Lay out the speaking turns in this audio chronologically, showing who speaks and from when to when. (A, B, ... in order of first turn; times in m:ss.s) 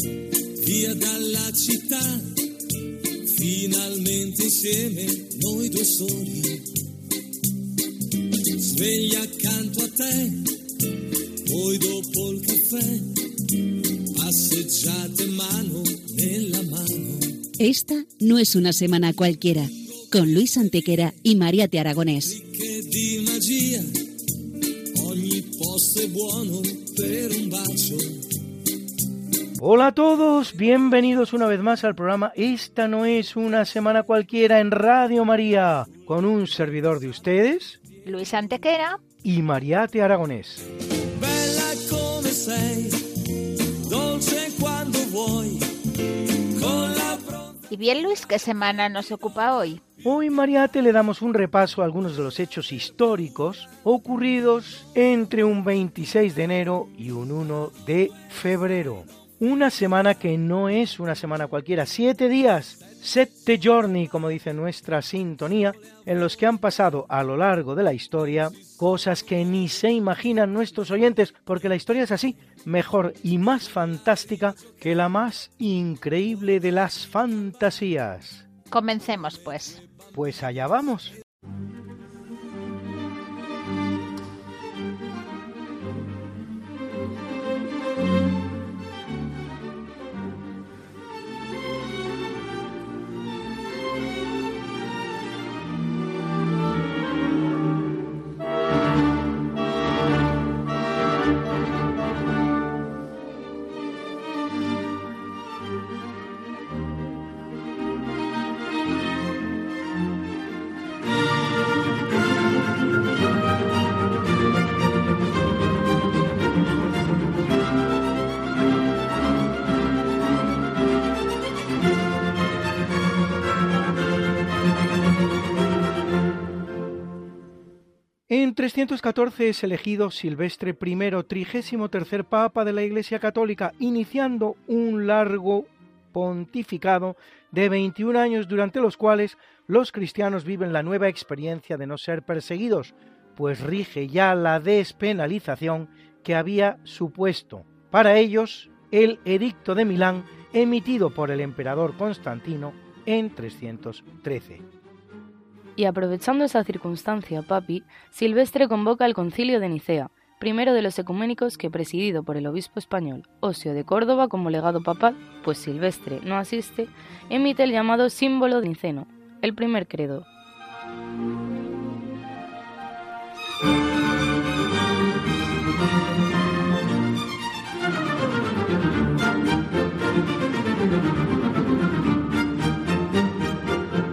0:00.6-0:02.2 A
0:03.3-0:06.6 A
0:08.6-0:10.5 A
0:11.4-0:13.1 A
0:14.1-0:17.4 A
0:17.6-0:22.4 B
0:22.4-0:23.9 A
0:24.9-0:28.2 A
0:29.6-0:37.8 C
0:38.0-0:39.0 D
0:39.2-0:40.6 C
0:41.2-0:43.0 A
0:43.9-0:45.6 A
0:46.5-0:47.6 A
0:47.7-0:49.8 D
0:50.0-1:18.4 C
1:18.7-1:19.8 D
1:20.1-1:21.1 C
2:08.3-2:34.6 C
2:35.8-2:50.2 E